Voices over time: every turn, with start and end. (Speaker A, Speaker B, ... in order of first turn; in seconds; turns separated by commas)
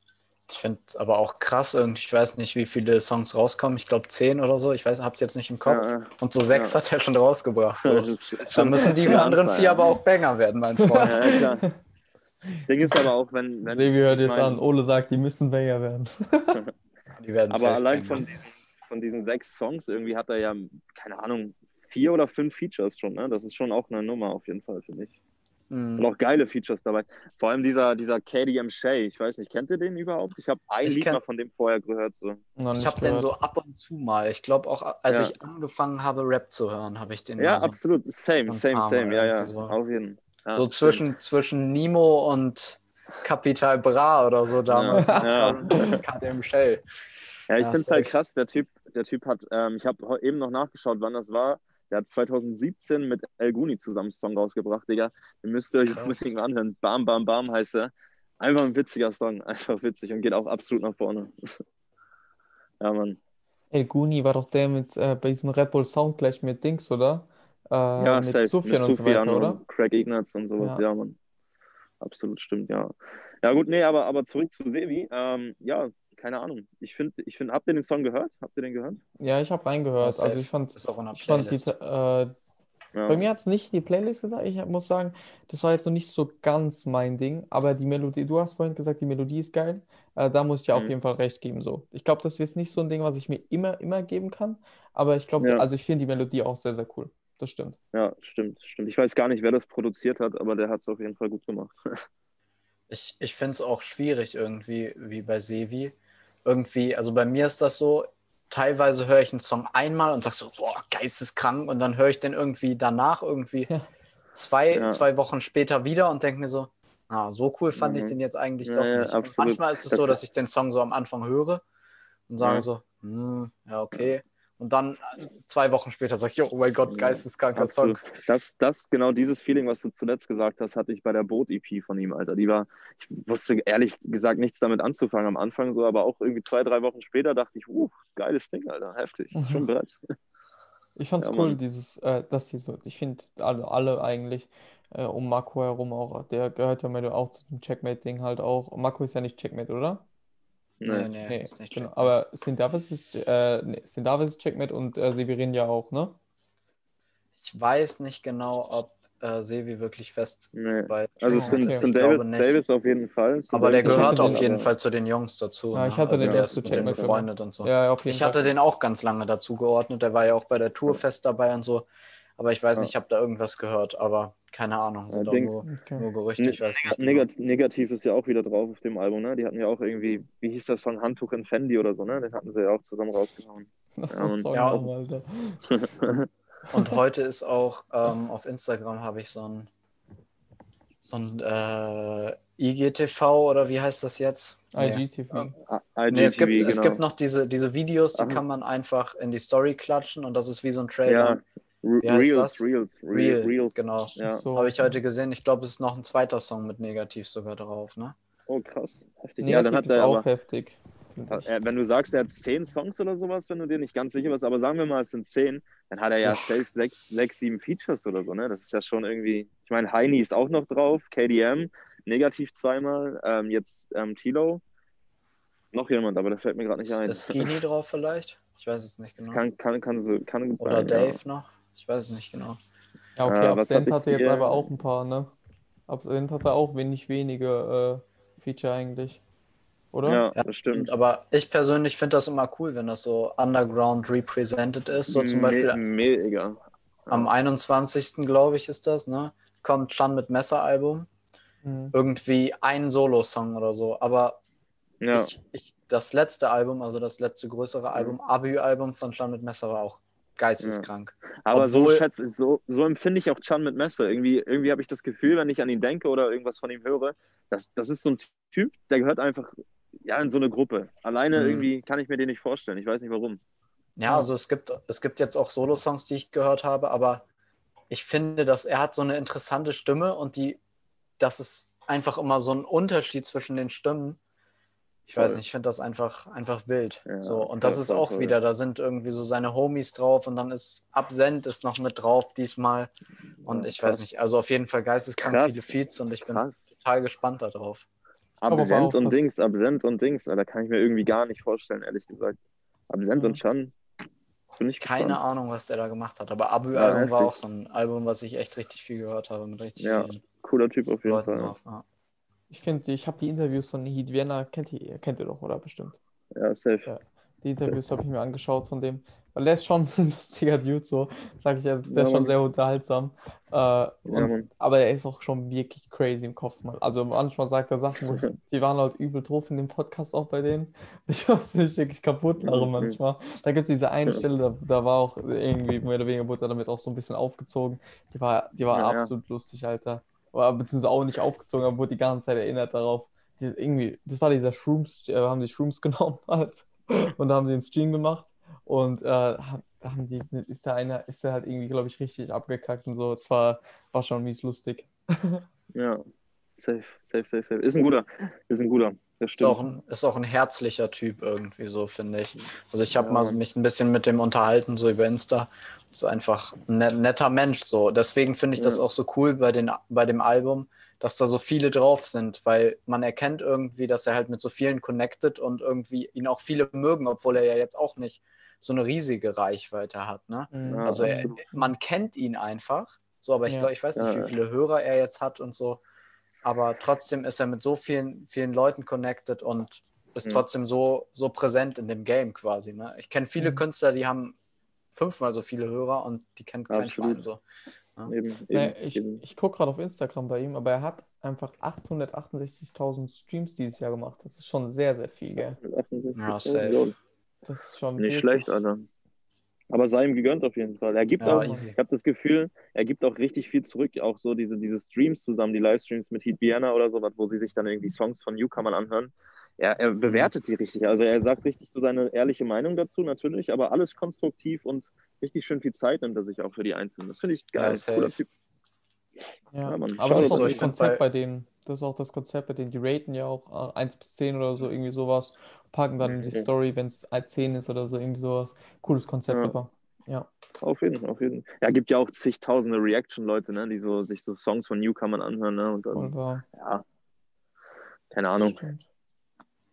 Speaker A: 0.5-11.4, Speaker B: 5.7-6.8, Speaker B: 7.8-9.9, Speaker C: 10.8-11.7, Speaker B: 11.0-11.7, Speaker B: 12.7-14.6, Speaker C: 12.8-13.1, Speaker C: 13.7-16.6, Speaker A: 17.1-18.2, Speaker B: 17.5-25.1, Speaker A: 25.7-26.1, Speaker B: 26.0-32.4, Speaker A: 30.8-31.2, Speaker C: 32.6-33.3, Speaker A: 32.7-37.8, Speaker B: 37.4-41.0, Speaker A: 38.5-39.8, Speaker A: 40.5-46.8, Speaker B: 44.7-46.0, Speaker C: 44.9-45.9, Speaker B: 47.5-61.6, Speaker A: 47.6-48.1, Speaker A: 55.8-56.3, Speaker B: 62.8-63.2, Speaker C: 63.7-69.6, Speaker B: 68.0-71.2, Speaker B: 72.0-79.0, Speaker C: 79.2-82.3, Speaker A: 80.0-81.7, Speaker B: 82.9-83.2, Speaker C: 83.1-97.8, Speaker B: 95.4-95.7, Speaker B: 97.9-102.0, Speaker A: 102.9-113.7, Speaker A: 114.3-121.6, Speaker B: 114.7-115.0, Speaker B: 117.8-120.2, Speaker A: 122.3-128.2, Speaker B: 122.4-122.7, Speaker B: 126.9-140.0, Speaker C: 139.3-139.7, Speaker C: 141.0-150.0, Speaker B: 141.2-141.6, Speaker B: 150.8-151.1, Speaker A: 150.8-152.1, Speaker C: 151.2-156.2, Speaker A: 157.4-162.6, Speaker B: 160.5-164.7, Speaker C: 161.3-161.9, Speaker A: 163.5-177.3, Speaker C: 163.8-164.5, Speaker C: 165.7-168.5, Speaker B: 166.2-167.2, Speaker B: 175.1-175.6, Speaker C: 175.7-176.1, Speaker B: 176.4-184.8, Speaker C: 184.0-186.1, Speaker A: 184.5-184.9, Speaker B: 185.7-186.2, Speaker A: 186.7-189.7, Speaker A: 191.0-195.4, Speaker C: 194.7-195.6, Speaker B: 195.7-197.0, Speaker A: 196.1-201.4, Speaker B: 198.1-198.4, Speaker B: 201.0-204.4, Speaker A: 202.0-208.2, Speaker C: 204.2-205.0, Speaker B: 208.5-210.2, Speaker C: 209.4-211.5, Speaker B: 211.3-224.6, Speaker B: 225.7-227.5, Speaker A: 226.8-229.4, Speaker B: 229.2-231.2, Speaker A: 230.6-232.6, Speaker C: 233.2-235.3, Speaker B: 233.2-234.7, Speaker C: 235.9-239.2, Speaker C: 239.9-240.2, Speaker B: 240.0-240.9, Speaker A: 240.4-245.8, Speaker B: 245.1-247.3, Speaker A: 247.1-251.1, Speaker C: 251.6-251.9, Speaker A: 251.9-254.4, Speaker B: 255.0-255.3, Speaker A: 255.1-262.0, Speaker B: 260.6-260.9, Speaker B: 261.4-269.5, Speaker B: 270.0-273.4, Speaker A: 271.3-271.7, Speaker A: 274.0-277.2, Speaker A: 277.9-280.6, Speaker A: 281.2-284.2, Speaker A: 285.1-292.9, Speaker B: 285.1-285.4, Speaker B: 287.1-288.4, Speaker B: 293.4-294.1, Speaker A: 293.4-297.9, Speaker B: 295.2-295.7, Speaker B: 296.2-296.8, Speaker B: 298.4-302.4, Speaker C: 298.5-299.3, Speaker B: 302.9-303.7, Speaker C: 303.1-303.4, Speaker B: 304.6-305.2, Speaker A: 304.8-310.2, Speaker B: 306.7-307.3, Speaker B: 309.8-311.5, Speaker A: 311.0-311.8, Speaker C: 312.5-316.0, Speaker B: 316.3-316.9, Speaker C: 316.9-355.4, Speaker B: 317.6-317.9, Speaker B: 321.9-322.4, Speaker B: 324.1-324.5, Speaker B: 332.4-333.0, Speaker B: 338.7-339.1, Speaker B: 355.7-356.0, Speaker B: 356.5-359.6, Speaker A: 359.4-385.8, Speaker B: 362.9-363.4, Speaker B: 368.6-368.8, Speaker C: 380.5-381.7, Speaker B: 380.7-381.4, Speaker B: 383.9-384.3, Speaker A: 386.4-394.4, Speaker C: 393.4-393.6, Speaker A: 394.9-397.4, Speaker B: 396.7-397.2, Speaker B: 398.1-399.2, Speaker C: 398.5-405.6, Speaker B: 405.6-406.9, Speaker A: 406.1-406.9, Speaker C: 407.4-408.6, Speaker B: 408.0-408.9, Speaker B: 409.7-428.3, Speaker A: 411.2-411.8, Speaker C: 411.3-411.6, Speaker A: 420.0-420.3, Speaker A: 427.5-428.2, Speaker C: 429.5-440.3, Speaker B: 429.6-430.7, Speaker A: 430.0-431.0, Speaker B: 436.0-436.5, Speaker B: 440.6-446.8, Speaker C: 445.9-446.4, Speaker B: 448.1-448.6, Speaker C: 448.4-448.8